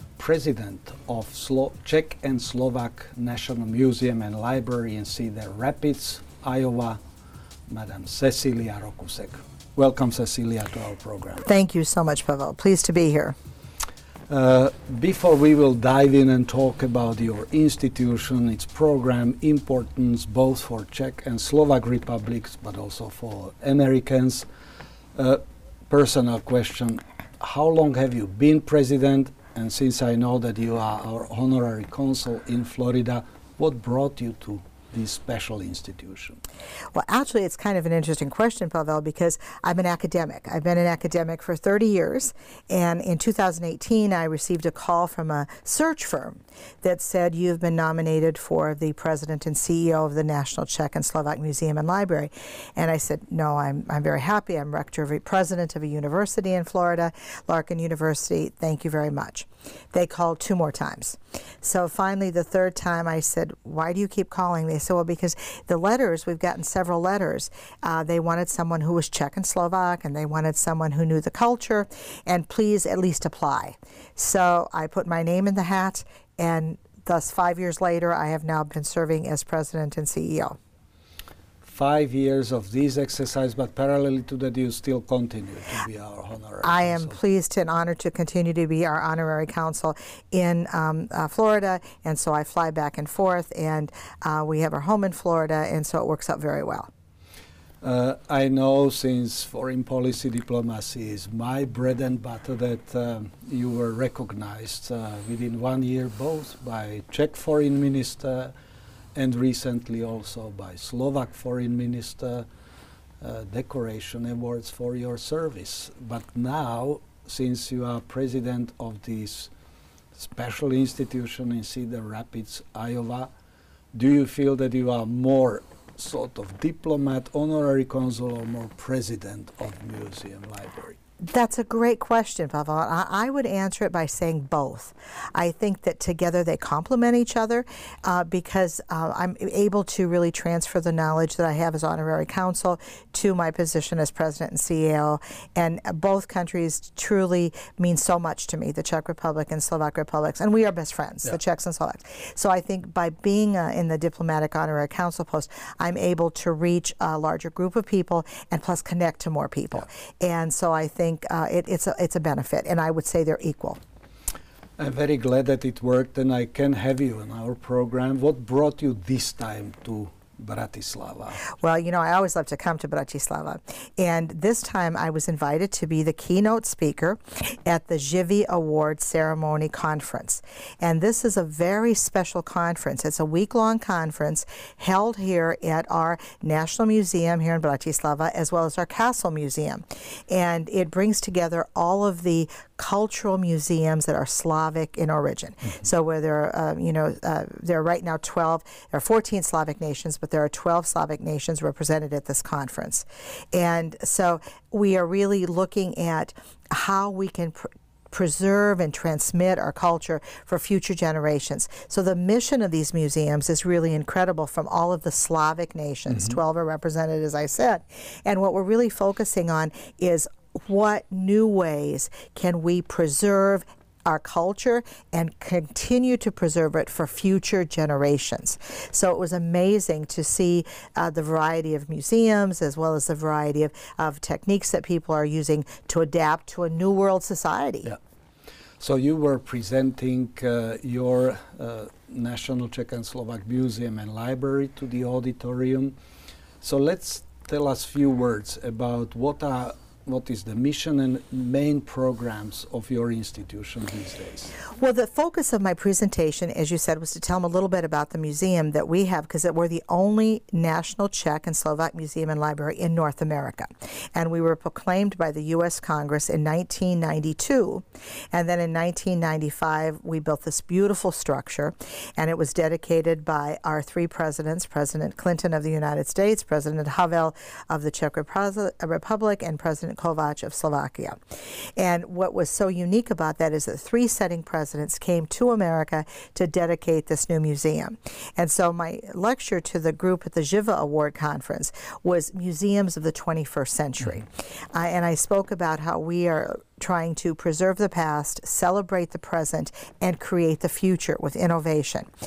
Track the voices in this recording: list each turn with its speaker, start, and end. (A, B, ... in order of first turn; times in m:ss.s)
0:00.2-0:07.0 A
0:07.7-0:11.4 A
0:11.4-0:13.3 B
0:14.3-0:24.5 A
0:25.2-0:36.4 A
0:36.9-1:20.6 B
1:21.6-1:27.2 A
1:26.6-1:36.9 B
1:37.8-1:48.5 A
1:49.1-1:52.5 A
1:53.2-1:59.5 A
2:00.2-2:03.3 A
2:03.9-2:11.0 A
2:11.2-2:43.8 B
2:44.8-2:51.4 A
2:51.6-3:57.9 B
3:58.8-4:06.0 A
4:06.6-4:14.5 A
4:14.7-5:02.1 B